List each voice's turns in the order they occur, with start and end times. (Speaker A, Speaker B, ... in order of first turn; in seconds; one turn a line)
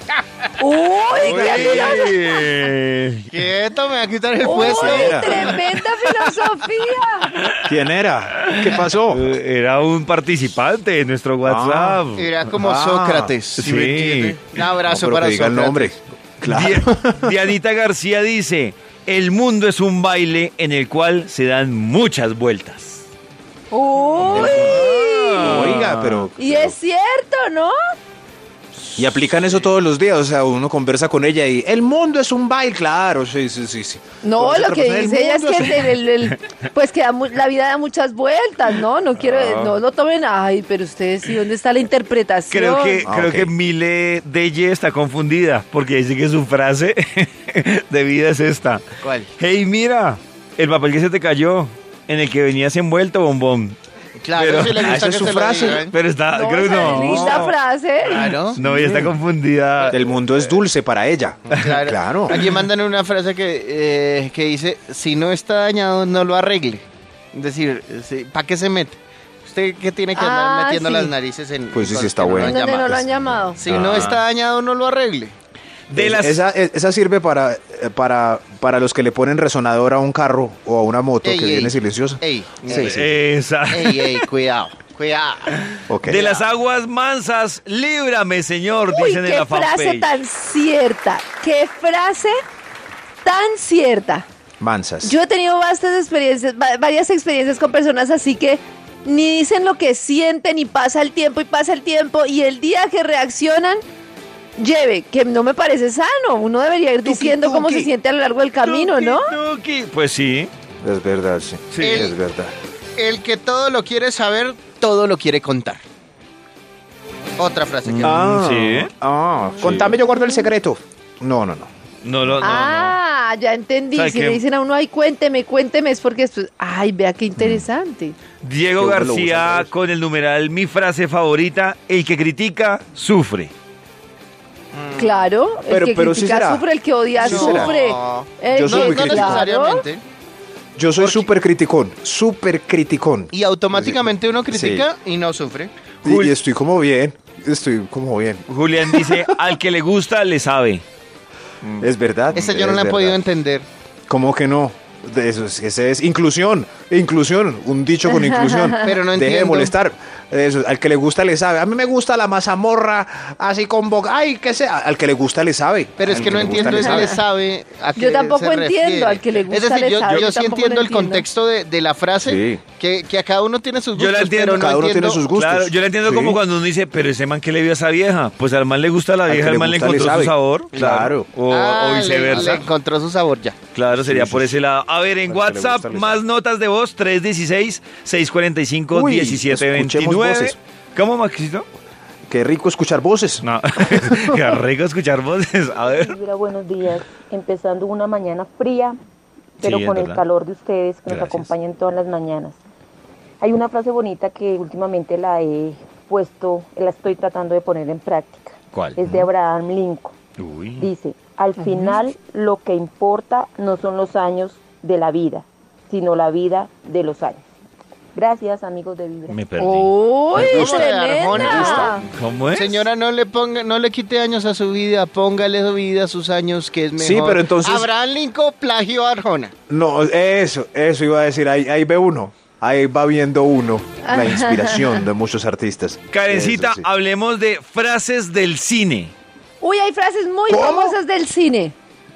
Speaker A: 0.6-2.4
Speaker B: 1.1-3.3
Speaker C: 1.2-2.1
Speaker D: 3.3-5.5
Speaker A: 4.4-7.3
Speaker C: 4.5-5.5
Speaker B: 7.4-7.7
Speaker C: 7.6-9.3
Speaker B: 8.3-12.4
Speaker C: 11.4-13.3
Speaker D: 12.2-15.9
Speaker B: 13.6-14.5
Speaker C: 14.8-17.3
Speaker B: 16.4-23.0
Speaker A: 23.7-25.8
Speaker B: 24.2-26.3
Speaker C: 24.2-26.7
Speaker A: 26.4-27.7
Speaker C: 28.9-35.8
Speaker A: 34.2-43.0
Speaker B: 39.2-39.8
Speaker B: 42.5-48.8
Speaker C: 43.0-43.5
Speaker D: 49.0-49.3
Speaker B: 49.3-53.8
Speaker D: 54.2-55.9
Speaker B: 54.3-57.6
Speaker C: 54.7-55.9
Speaker A: 56.3-58.3
Speaker C: 56.9-57.4
Speaker D: 58.1-58.6
Speaker B: 58.1-60.0
Speaker C: 58.6-59.0
Speaker C: 59.9-62.4
Speaker D: 61.6-73.0
Speaker A: 70.1-71.1
Speaker C: 71.7-74.2
Speaker A: 72.3-73.6
Speaker D: 73.6-75.3
Speaker B: 73.7-74.2
Speaker B: 75.9-76.4
Speaker C: 75.9-83.2
Speaker D: 81.2-82.9
Speaker B: 82.7-84.2
Speaker D: 83.7-85.5
Speaker C: 85.9-86.2
Speaker B: 86.0-90.1
Speaker A: 88.9-92.4
Speaker A: 93.2-94.2
Speaker C: 94.6-95.2
Speaker A: 95.0-103.8
Speaker A: 104.6-109.3
Speaker C: 107.0-107.9
Speaker B: 108.6-110.5
Speaker C: 110.8-112.5
Speaker B: 111.7-112.1
Speaker D: 111.8-112.1
Speaker D: 113.0-115.8
Speaker D: 117.4-118.2
Speaker B: 117.9-118.9
Speaker C: 118.0-121.7
Speaker B: 119.6-120.0
Speaker A: 119.9-120.5
Speaker B: 122.0-123.0
Speaker A: 122.4-128.2
Speaker B: 123.9-124.4
Speaker C: 127.4-127.6
Speaker B: 128.4-133.5
Speaker C: 128.8-129.7
Speaker D: 134.7-135.2
Speaker A: 135.0-139.8
Speaker C: 135.7-136.7
Speaker C: 137.2-137.7
Speaker D: 137.2-140.0
Speaker C: 138.5-139.5
Speaker C: 140.8-144.9
Speaker D: 141.0-141.3
Speaker D: 143.3-145.7
Speaker B: 146.0-146.3
Speaker C: 146.0-149.5
Speaker B: 148.5-150.8
Speaker C: 151.8-153.2
Speaker D: 152.3-153.7
Speaker C: 154.1-167.2
Speaker A: 158.1-158.9
Speaker D: 158.8-159.7
Speaker D: 166.0-175.2
Speaker A: 166.8-167.1
Speaker A: 167.9-171.2
Speaker C: 172.2-172.6
Speaker B: 173.9-182.6
Speaker C: 174.5-176.4
Speaker C: 179.2-181.3
Speaker D: 180.7-183.6
Speaker B: 183.7-191.7
Speaker C: 183.9-184.6
Speaker C: 185.3-186.2
Speaker C: 188.9-190.6
Speaker C: 192.3-194.2
Speaker B: 193.4-196.1
Speaker E: 195.8-199.0
Speaker E: 199.6-202.6
Speaker B: 199.6-200.2
Speaker B: 201.1-201.5
Speaker E: 203.4-210.1
Speaker B: 208.7-209.2
Speaker B: 210.4-210.9
Speaker E: 210.8-217.4
Speaker A: 211.6-212.0
Speaker E: 218.1-219.4
Speaker B: 219.3-219.9
Speaker A: 219.6-222.0
Speaker D: 220.3-229.5
Speaker E: 220.4-221.9
Speaker B: 222.1-222.8
Speaker C: 227.0-227.9
Speaker C: 229.7-236.8
Speaker A: 234.0-235.1
Speaker B: 236.1-239.1
Speaker A: 239.6-241.7
Speaker C: 240.5-241.0